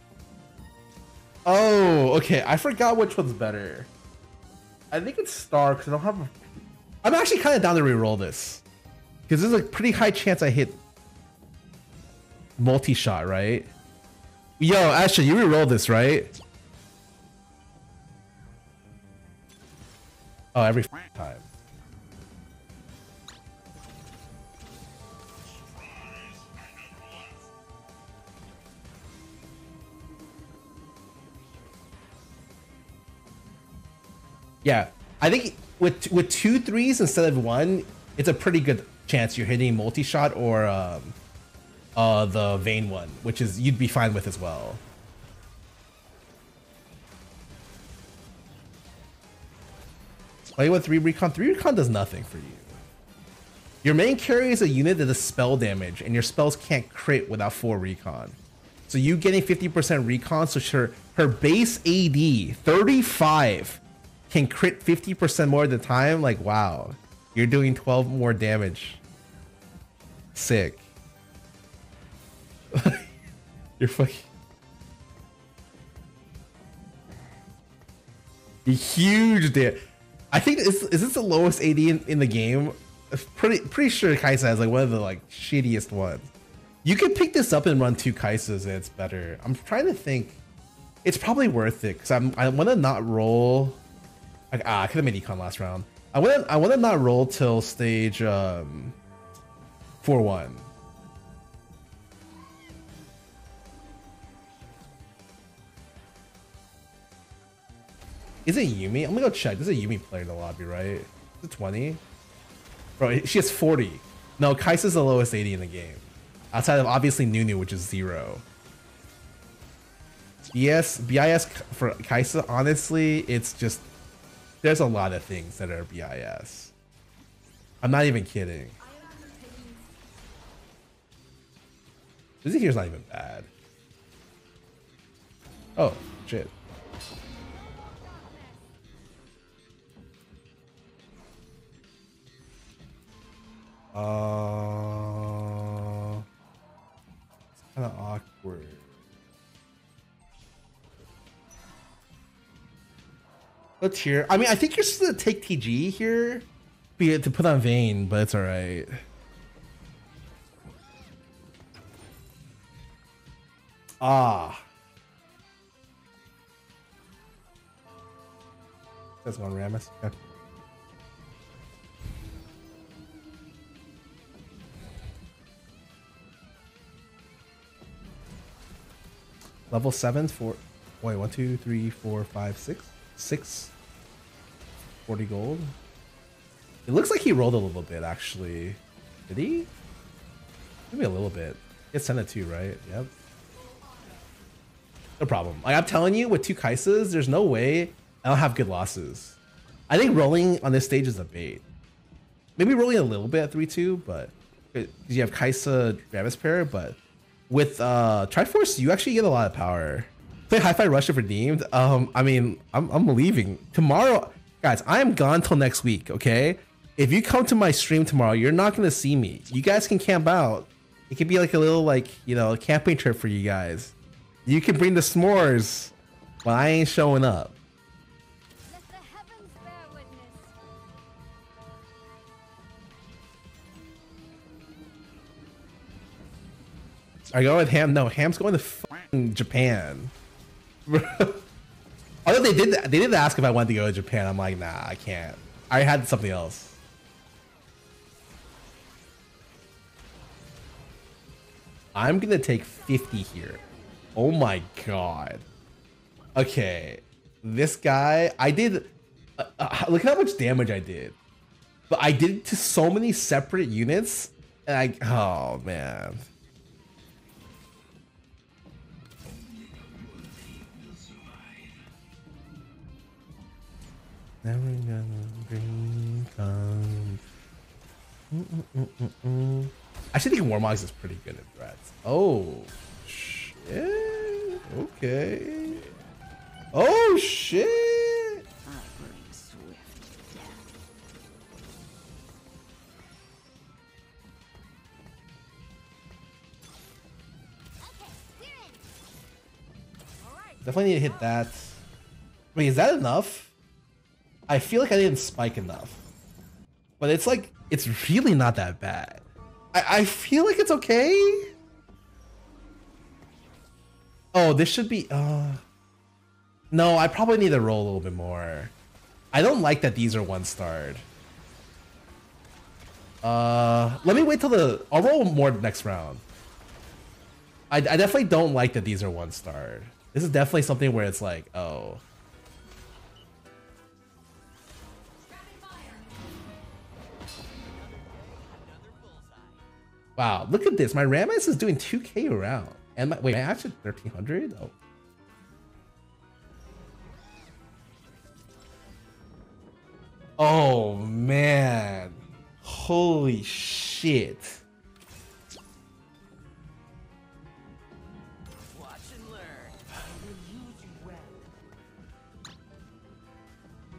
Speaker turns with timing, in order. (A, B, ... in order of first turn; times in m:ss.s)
0:01.4-0:03.9 A
0:04.9-0:06.3 A
0:07.0-0:08.6 A
0:09.3-0:10.8 A
0:12.6-0:13.7 A
0:14.6-0:16.3 A
0:20.5-0:21.4 A
0:34.6-0:41.2 A
0:42.0-0:44.8 A
0:50.6-0:52.8 A
0:53.8-0:58.4 A
0:58.9-1:09.0 A
1:10.3-1:10.8 A
1:12.7-1:13.1 A
1:13.8-1:14.3 A
1:18.6-1:26.3 A
1:26.8-1:30.4 A
1:31.0-1:33.8 A
1:34.5-1:39.0 A
1:40.0-1:40.7 A
1:48.4-1:52.0 A
1:53.0-1:58.4 A
2:00.5-2:03.8 A
2:04.6-2:06.7 A
2:07.8-2:08.7 A
2:08.8-2:09.9 B
2:12.4-2:13.5 A
2:15.8-2:16.5 A
2:17.5-2:18.6 B
2:23.9-2:26.2 A
2:27.6-2:28.8 A
2:33.8-2:36.5 A
2:37.0-2:39.0 A
2:44.0-2:44.6 A
2:49.2-2:50.2 A
2:59.7-3:03.7 A
3:05.0-3:05.7 A
3:06.9-3:09.7 A
3:10.9-3:13.1 A
3:13.6-3:14.2 B
3:15.2-3:19.4 A
3:19.9-3:21.6 A
3:22.6-3:27.0 A
3:27.5-3:43.9 A
3:44.4-3:45.9 A
3:46.4-3:47.6 A
3:48.6-3:50.5 B
3:57.3-4:00.1 A
4:00.9-4:01.4 A
4:02.2-4:06.8 A
4:11.9-4:13.6 A
4:14.1-4:15.4 A
4:16.3-4:21.2 A
4:21.9-4:26.3 A
4:30.2-4:31.6 C
4:34.4-4:37.2 A
4:38.3-4:45.8 A
4:45.7-4:46.1 C
4:46.7-4:48.4 A
4:48.6-4:50.6 C
4:57.8-4:58.8 B
5:00.2-5:00.8 B
5:00.6-5:01.8 A
5:02.5-5:03.5 A
5:04.5-5:06.0 A
5:07.0-5:11.5 A
5:14.3-5:15.6 A
5:16.7-5:18.7 A
5:19.3-5:21.0 A
5:23.2-5:26.2 A
5:27.7-5:32.0 A
5:35.2-5:36.2 B
5:37.6-5:39.6 C
5:40.2-5:44.7 A
5:50.4-5:54.6 A
5:58.7-6:01.5 C